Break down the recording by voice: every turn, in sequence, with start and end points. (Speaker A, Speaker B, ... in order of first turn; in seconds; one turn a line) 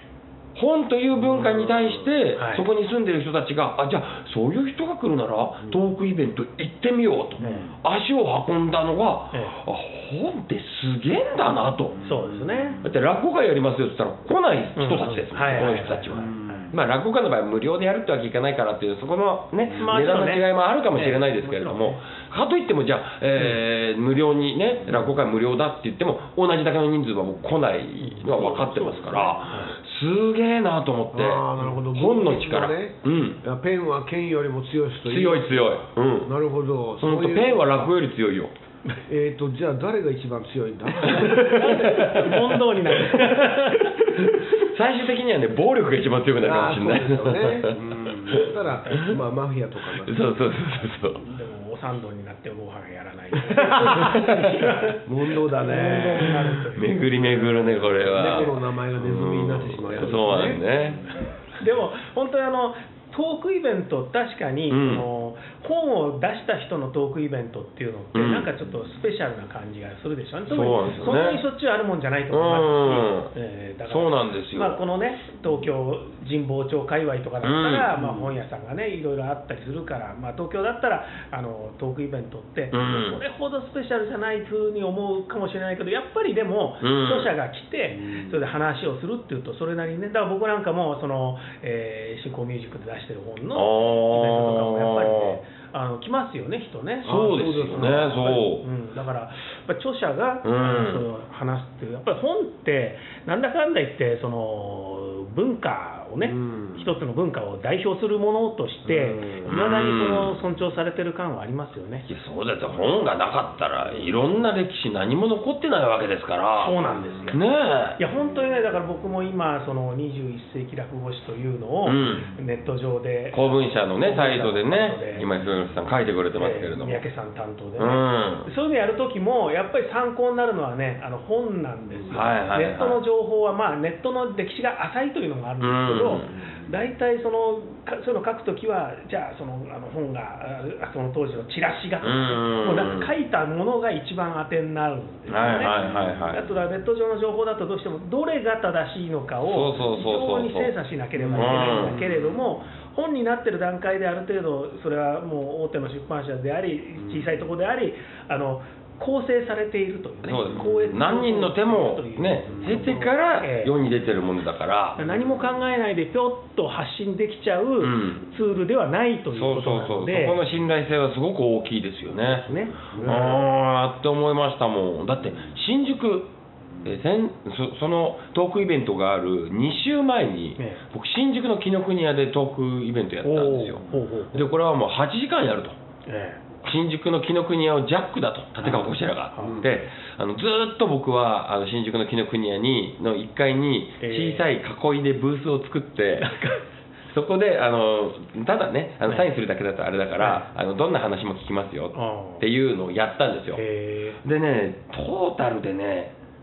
Speaker A: 0.5-12.0
Speaker B: 1.2-2.0
Speaker C: 2.4-2.6
Speaker C: 7.4-7.7
Speaker C: 12.0-12.8
Speaker B: 12.1-12.5
Speaker A: 12.8-33.4
Speaker C: 14.8-16.7
Speaker C: 19.7-22.0
Speaker C: 28.0-29.7
Speaker B: 31.1-37.9
Speaker A: 35.0-36.3
Speaker A: 37.0-38.5
Speaker B: 39.1-42.3
Speaker C: 41.0-44.4
Speaker A: 41.1-42.5
Speaker A: 43.0-49.1
Speaker B: 46.4-50.2
Speaker A: 50.0-51.2
Speaker C: 51.1-57.7
Speaker B: 53.7-54.3
Speaker B: 55.0-56.5
Speaker A: 56.7-61.0
Speaker B: 57.8-60.6
Speaker C: 61.6-112.1
Speaker A: 64.7-65.0
Speaker A: 68.1-68.5
Speaker A: 70.5-71.4
Speaker A: 72.3-73.3
Speaker A: 73.9-74.8
Speaker A: 77.4-77.9
Speaker B: 78.0-78.3
Speaker A: 82.7-83.2
Speaker A: 86.8-87.3
Speaker B: 87.9-88.4
Speaker A: 93.5-95.4
Speaker B: 97.0-98.0
Speaker A: 97.0-98.7
Speaker A: 100.4-101.0
Speaker B: 106.2-106.8
Speaker B: 108.9-109.4
Speaker A: 109.4-110.4
Speaker A: 112.0-116.8
Speaker C: 116.6-117.4
Speaker A: 117.3-118.0
Speaker C: 118.0-125.3
Speaker A: 121.8-122.3
Speaker A: 123.3-127.0
Speaker C: 126.3-145.7
Speaker A: 127.8-128.5
Speaker A: 132.1-133.0
Speaker A: 135.6-136.3
Speaker A: 142.0-143.1
Speaker A: 145.3-146.4
Speaker B: 145.4-146.3
Speaker C: 146.3-163.7
Speaker A: 149.4-150.7
Speaker B: 151.2-152.3
Speaker A: 151.3-152.0
Speaker A: 160.2-165.0
Speaker C: 165.0-170.4
Speaker A: 167.8-168.2
Speaker A: 169.3-176.3
Speaker C: 172.3-173.1
Speaker B: 172.9-173.4
Speaker A: 176.8-183.8
Speaker C: 183.2-184.3
Speaker A: 184.3-185.8
Speaker C: 186.1-186.4
Speaker A: 186.6-196.3
Speaker C: 188.6-189.7
Speaker B: 189.4-189.7
Speaker C: 194.0-194.4
Speaker C: 196.2-196.6
Speaker A: 197.1-203.6
Speaker C: 200.2-200.5
Speaker C: 201.9-202.4
Speaker C: 203.5-204.2
Speaker A: 204.2-206.1